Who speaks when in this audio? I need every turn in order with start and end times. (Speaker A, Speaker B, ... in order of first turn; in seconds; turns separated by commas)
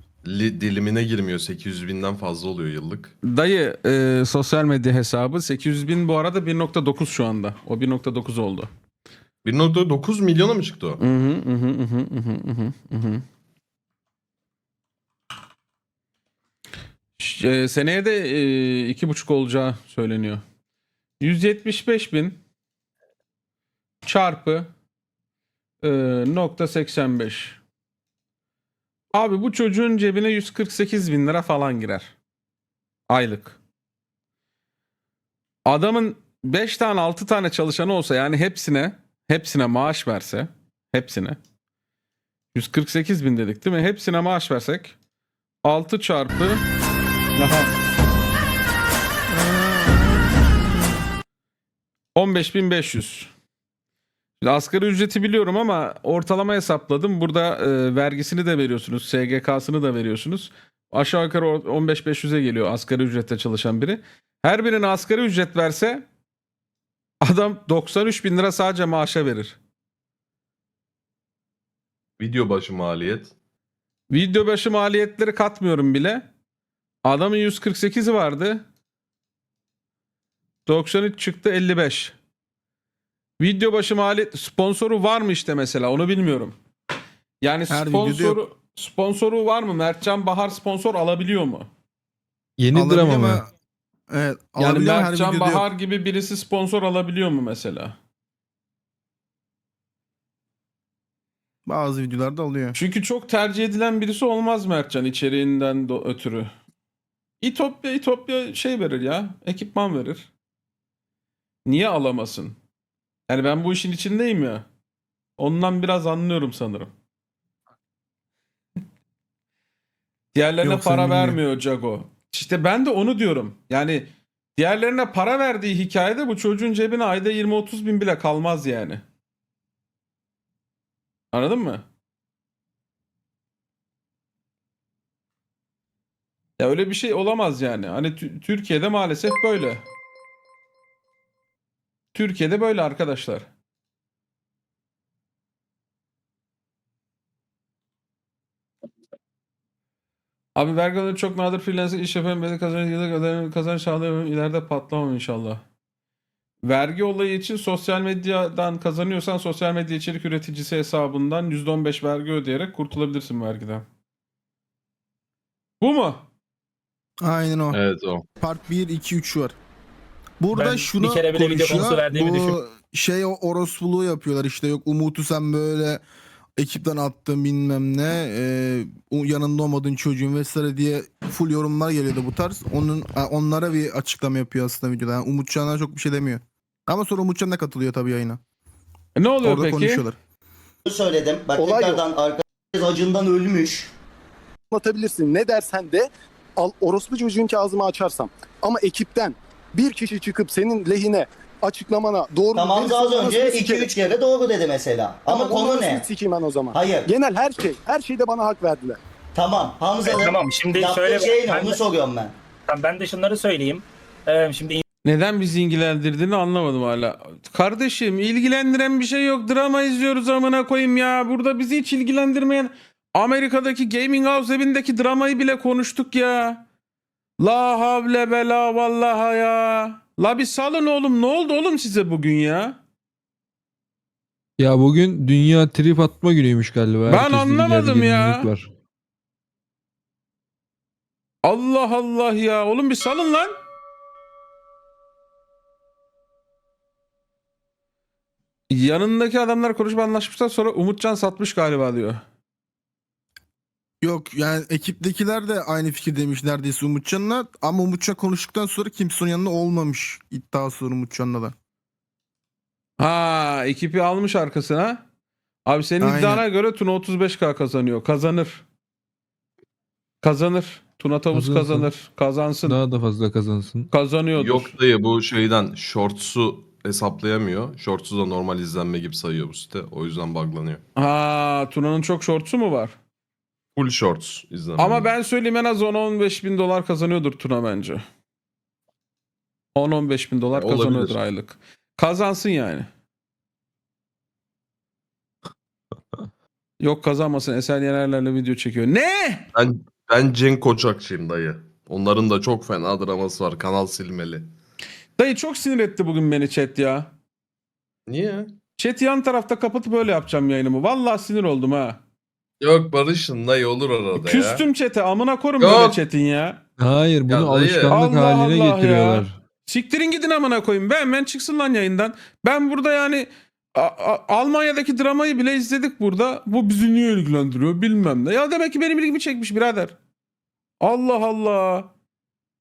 Speaker A: 0.2-3.1, Speaker B: 3.2-8.7, Speaker A: 9.4-11.0, Speaker B: 11.0-13.2, Speaker B: 17.2-20.4, Speaker B: 21.2-22.4, Speaker B: 24.1-24.7, Speaker B: 25.8-27.6, Speaker B: 29.1-32.1, Speaker B: 33.1-33.6, Speaker B: 35.7-41.4, Speaker B: 42.5-44.9, Speaker B: 45.6-46.6, Speaker B: 47.4-47.7, Speaker C: 49.3-50.5, Speaker B: 52.2-53.3, Speaker B: 54.4-66.0, Speaker B: 67.2-69.6, Speaker A: 72.2-73.3, Speaker B: 74.1-76.3, Speaker B: 77.1-78.6, Speaker B: 80.7-82.2, Speaker B: 83.4-86.5, Speaker B: 87.4-91.7, Speaker C: 87.7-88.4, Speaker D: 92.6-93.4, Speaker C: 92.7-93.5, Speaker C: 94.1-95.7, Speaker B: 94.6-98.0, Speaker C: 101.7-102.8, Speaker B: 102.8-106.5, Speaker B: 107.4-110.3, Speaker B: 111.7-112.6, Speaker B: 113.3-114.7, Speaker B: 115.4-116.9, Speaker B: 120.3-129.0, Speaker C: 120.7-121.3, Speaker D: 121.0-121.2, Speaker B: 131.3-131.8, Speaker B: 136.6-139.8, Speaker B: 142.1-143.5, Speaker B: 150.6-155.6, Speaker B: 156.7-163.8, Speaker B: 165.8-166.2, Speaker C: 167.2-167.8, Speaker A: 167.7-168.2, Speaker C: 168.4-169.6, Speaker C: 170.4-176.0, Speaker E: 170.5-172.6, Speaker C: 176.6-188.4, Speaker B: 189.2-190.0, Speaker C: 189.4-190.2, Speaker F: 190.9-193.9, Speaker G: 191.6-192.0, Speaker G: 194.7-204.1, Speaker F: 202.6-206.1, Speaker G: 205.3-209.0, Speaker F: 206.8-207.1, Speaker F: 209.3-212.3, Speaker E: 210.1-211.8, Speaker E: 212.7-214.8, Speaker B: 215.1-226.6, Speaker B: 227.4-232.8, Speaker D: 234.6-238.7, Speaker B: 237.1-238.5, Speaker B: 241.4-243.6, Speaker B: 248.7-252.2, Speaker C: 254.0-261.5, Speaker B: 263.0-265.0, Speaker B: 265.7-268.6, Speaker C: 266.0-266.4, Speaker B: 270.2-272.8, Speaker D: 271.3-271.9, Speaker D: 272.7-273.9, Speaker B: 273.9-274.8, Speaker A: 274.4-280.8, Speaker B: 281.0-282.9, Speaker A: 283.8-285.1, Speaker B: 284.8-288.1, Speaker B: 289.8-292.9, Speaker A: 290.5-291.2, Speaker B: 296.8-299.5, Speaker A: 299.6-304.5, Speaker B: 305.2-307.1, Speaker A: 308.1-308.6, Speaker B: 308.8-312.0, Speaker A: 312.6-314.6, Speaker B: 314.1-316.6, Speaker A: 315.6-316.0, Speaker D: 316.8-319.4, Speaker A: 317.3-318.0, Speaker B: 317.9-330.0, Speaker B: 330.8-331.9